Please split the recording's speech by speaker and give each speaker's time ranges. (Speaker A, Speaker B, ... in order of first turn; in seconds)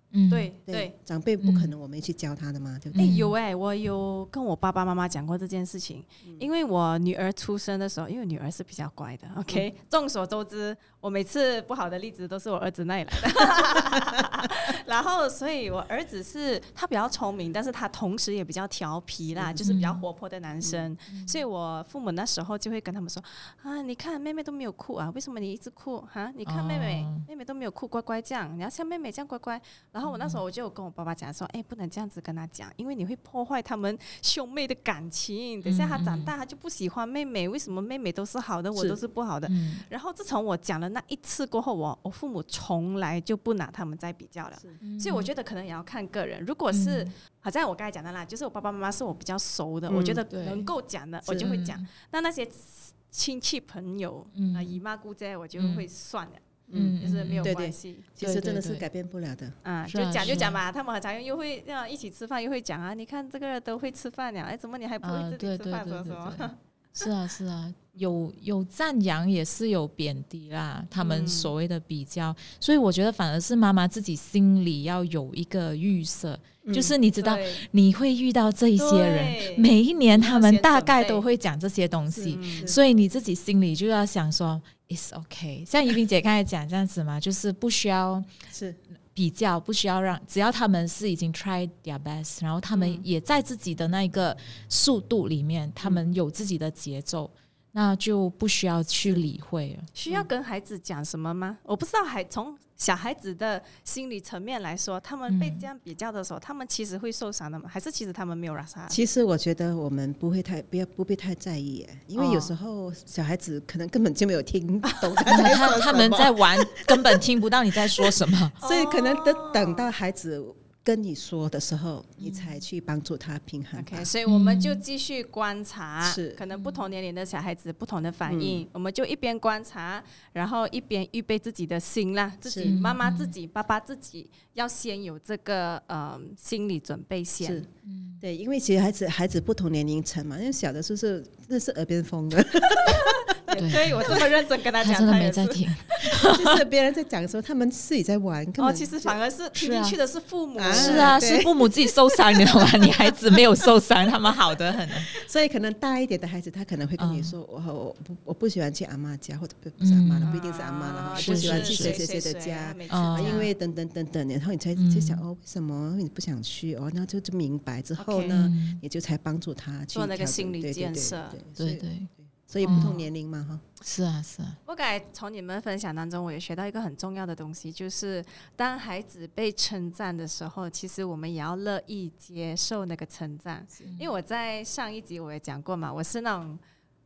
Speaker A: 0.1-0.5, 1.4-1.7, 2.9-3.3, 19.6-20.0, 21.1-21.4, 26.4-27.3, 30.0-30.4, 35.6-36.3, 39.5-39.8, 44.8-45.3, 46.7-47.1, 50.3-50.7, 51.4-51.8, 54.3-54.8, 55.6-55.9, 56.7-57.5, 58.2-58.8, 59.9-60.6, 65.0-88.3, 89.1-99.9, 105.3-105.7, 115.2-118.5, 122.2-122.6, 124.2-124.8, 126.5-126.8, 132.6-133.3, 137.8-138.2, 143.6-144.2, 144.8-146.6, 149.5-149.9, 150.7-155.1, 157.0-157.3, 159.8-160.3, 161.1-162.0, 162.9-163.5, 164.8-165.2, 168.3-168.8, 171.6-172.1, 172.6-172.9, 173.8-174.6, 183.8-184.1
Speaker B: 0.3-0.9, 2.9-56.5, 57.0-58.1, 59.6-66.5, 71.0-71.5, 77.2-77.6, 78.8-81.2, 82.3-82.7, 92.7-93.0, 99.9-109.0, 112.1-112.5, 114.8-115.2, 118.6-119.9, 123.7-137.6, 142.9-146.2, 148.6-151.3, 160.3-163.5, 168.0-168.5, 169.9-171.4, 172.6-173.0, 174.7-186.6
Speaker C: 0.7-3.2, 19.3-19.7, 20.6-20.9, 49.9-50.2, 51.2-51.6, 56.7-59.6, 76.6-76.9, 82.1-82.8, 88.5-88.8, 108.9-117.2, 117.9-124.1, 126.0-126.4, 128.2-128.6, 132.4-132.8, 137.4-137.7, 138.2-143.5, 146.3-149.2, 150.6-151.7, 152.6-153.6, 155.1-173.6